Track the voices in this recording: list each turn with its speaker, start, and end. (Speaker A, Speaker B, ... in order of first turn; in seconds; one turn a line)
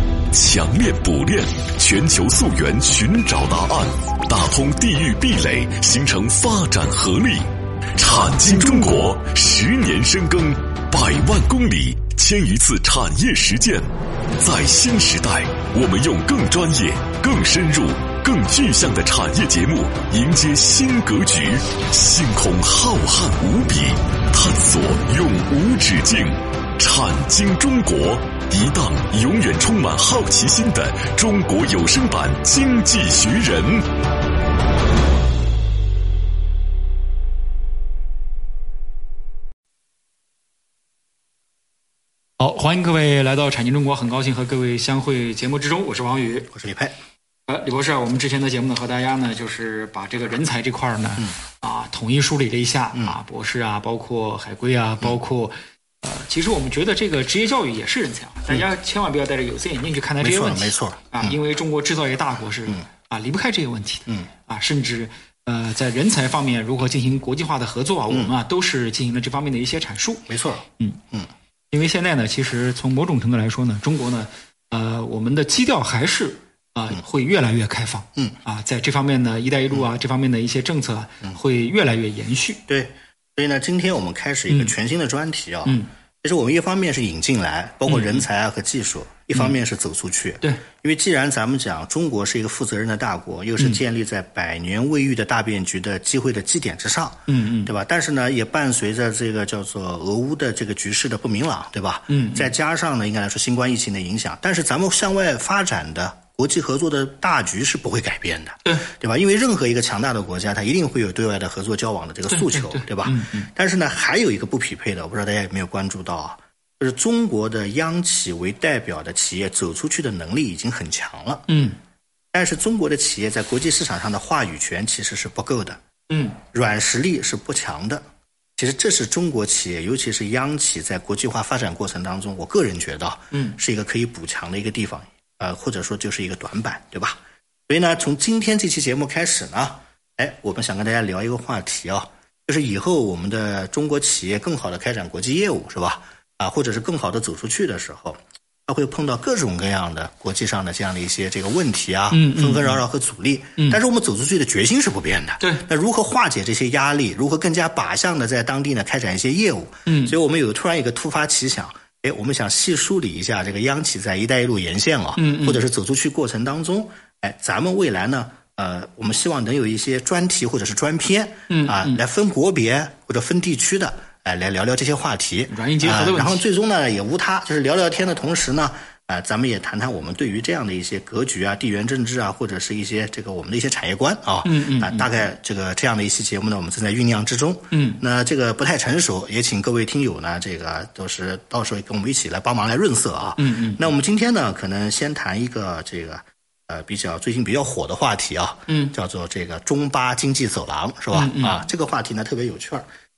Speaker A: 0.3-7.4
Speaker A: 8.0-13.8
Speaker A: 14.4-33.8
Speaker B: 42.4-46.5
Speaker C: 46.5-46.9
Speaker B: 47.5-71.0
Speaker C: 60.2-61.4
Speaker C: 70.3-71.3
Speaker B: 71.7-82.6
Speaker C: 82.7-121.5
Speaker B: 84.5-84.7
Speaker B: 87.8-88.3
Speaker B: 97.3-97.7
Speaker B: 102.1-102.5
Speaker B: 112.3-113.5
Speaker B: 121.5-121.8
Speaker C: 122.3-125.8
Speaker B: 126.1-126.4
Speaker C: 126.5-128.0
Speaker C: 128.6-202.8
Speaker B: 133.3-133.6
Speaker B: 152.1-152.8
Speaker B: 155.4-155.7
Speaker B: 159.9-160.2
Speaker B: 165.2-165.6
Speaker B: 171.5-172.0
Speaker B: 175.5-176.4
Speaker B: 184.4-185.2
Speaker B: 187.7-188.0
Speaker B: 193.4-193.9
Speaker B: 198.7-198.9
Speaker B: 201.1-201.6